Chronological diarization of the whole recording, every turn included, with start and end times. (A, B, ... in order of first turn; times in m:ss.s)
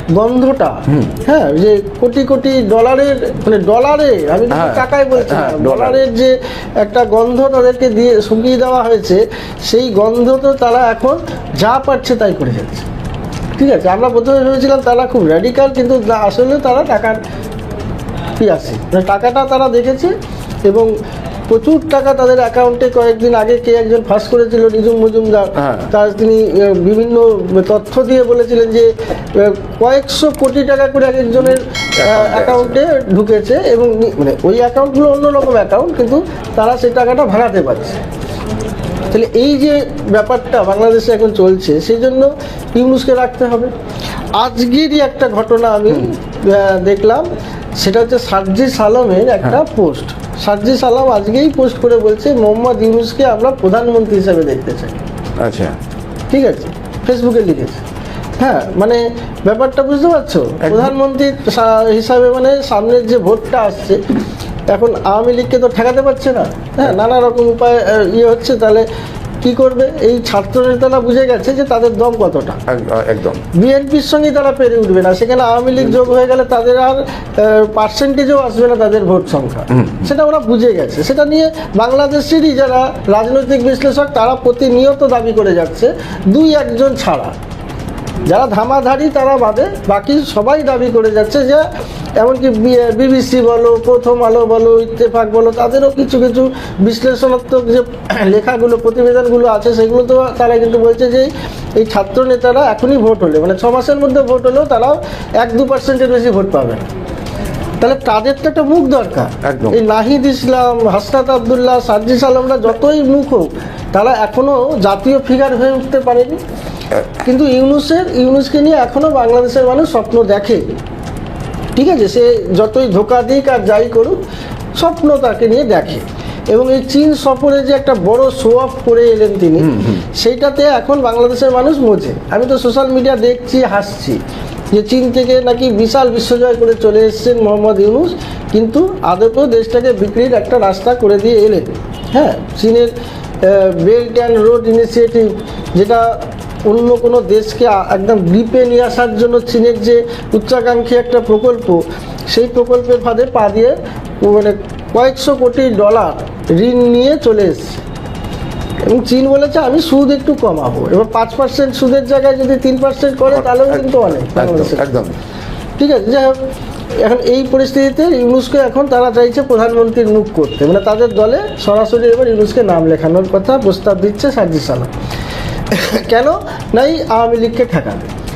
0:00.2-0:06.3 A
0:00.9-0:01.2 B
0:04.5-0:06.0 B
0:06.8-0:12.9 A
0:13.6-0:17.2 A
0:18.4-0:20.1 A
0:21.5-0:28.9 A
0:25.6-0:25.9 B
0:29.4-0:38.0 A
0:32.0-0:32.8 B
0:39.1-0:43.7 A
0:44.4-0:47.2 A
0:47.8-0:55.0 A
0:55.4-0:55.8 B
0:56.3-0:57.8 A
0:58.4-1:04.0 A
1:00.6-1:00.9 B
1:04.7-1:08.8 A
1:09.4-1:12.6 A
1:12.7-1:13.4 B
1:13.6-1:27.3 A
1:15.8-1:16.1 B
1:19.7-1:20.1 B
1:28.3-1:31.6 A
1:32.2-1:46.8 A
1:47.8-1:56.4 A
1:49.4-1:49.8 B
1:57.3-2:00.6 A
2:01.8-2:04.2 A
2:04.8-2:09.6 A
2:09.6-2:10.0 B
2:10.2-2:14.2 A
2:14.7-2:22.9 A
2:23.5-2:26.0 A
2:26.7-2:31.8 A
2:32.3-2:37.8 A
2:38.9-2:44.8 A
2:43.3-2:45.2 B
2:45.8-2:46.4 A
2:47.0-2:54.9 A
2:55.8-2:58.1 A